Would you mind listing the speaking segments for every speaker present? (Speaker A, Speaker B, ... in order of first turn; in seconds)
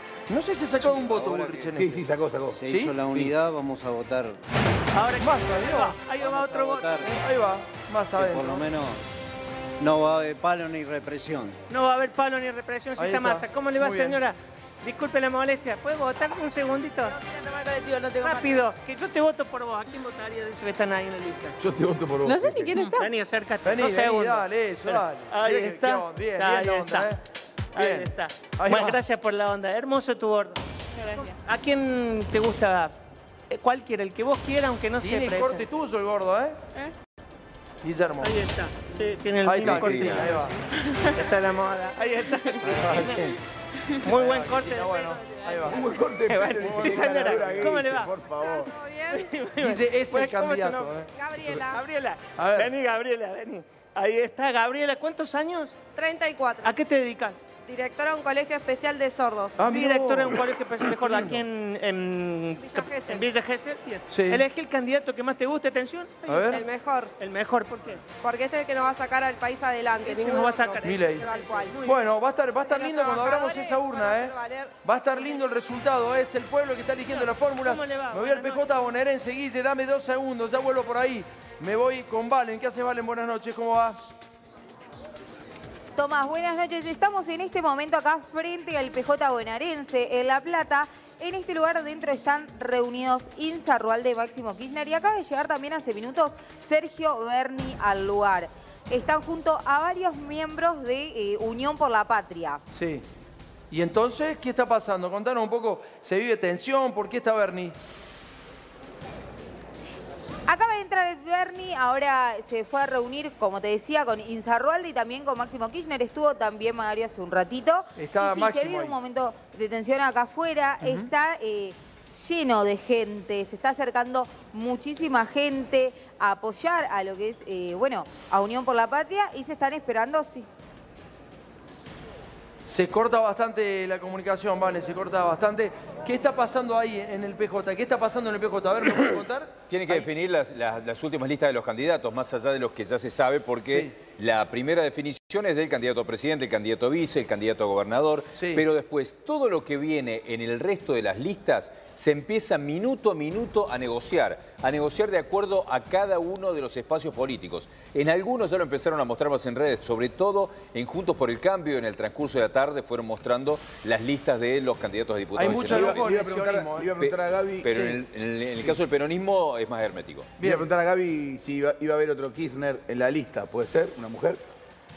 Speaker A: 0.3-2.0, 2.6-3.0, 5.2-8.7, 13.0-14.2, 23.6-27.2, 27.8-29.0, 35.0-36.6, 37.8-38.4, 39.4-40.5, 42.6-43.4, 44.0-46.0, 46.6-47.8, 49.6-51.6, 52.4-52.7, 59.6-61.4, 64.1-64.4, 66.3-66.6, 70.8-71.2, 71.8-84.0, 102.7-103.0, 103.7-107.7, 118.0-119.0, 120.8-121.1, 132.6-140.1, 143.7-143.9, 148.3-148.6, 165.3-166.9, 167.7-168.0, 170.4-170.7
Speaker B: 1.2-1.6, 2.5-4.4, 6.7-7.0, 8.2-9.0, 9.8-11.6
Speaker C: 1.7-3.3, 21.6-22.9, 45.7-48.7, 165.5-167.8, 170.4-174.4
Speaker D: 4.9-7.0, 11.7-17.1, 18.2-21.6, 22.9-27.1, 27.7-30.6, 31.1-33.0, 33.5-35.6, 38.2-40.6, 41.1-43.3, 44.0-45.2, 46.3-48.1, 49.1-51.0, 51.7-55.8, 56.6-57.4, 59.6-66.6, 67.2-68.0, 70.0-72.0, 77.1-78.7
Speaker E: 17.1-18.6, 22.2-23.1, 31.0-31.3, 48.4-49.3, 51.1-51.8, 55.9-56.8, 57.6-59.6, 62.6-63.3, 66.4-67.1, 68.2-71.8, 72.6-75.4
Speaker F: 39.6-40.3, 139.7-166.1, 167.0-170.3
Speaker G: 86.0-102.6, 110.5-130.5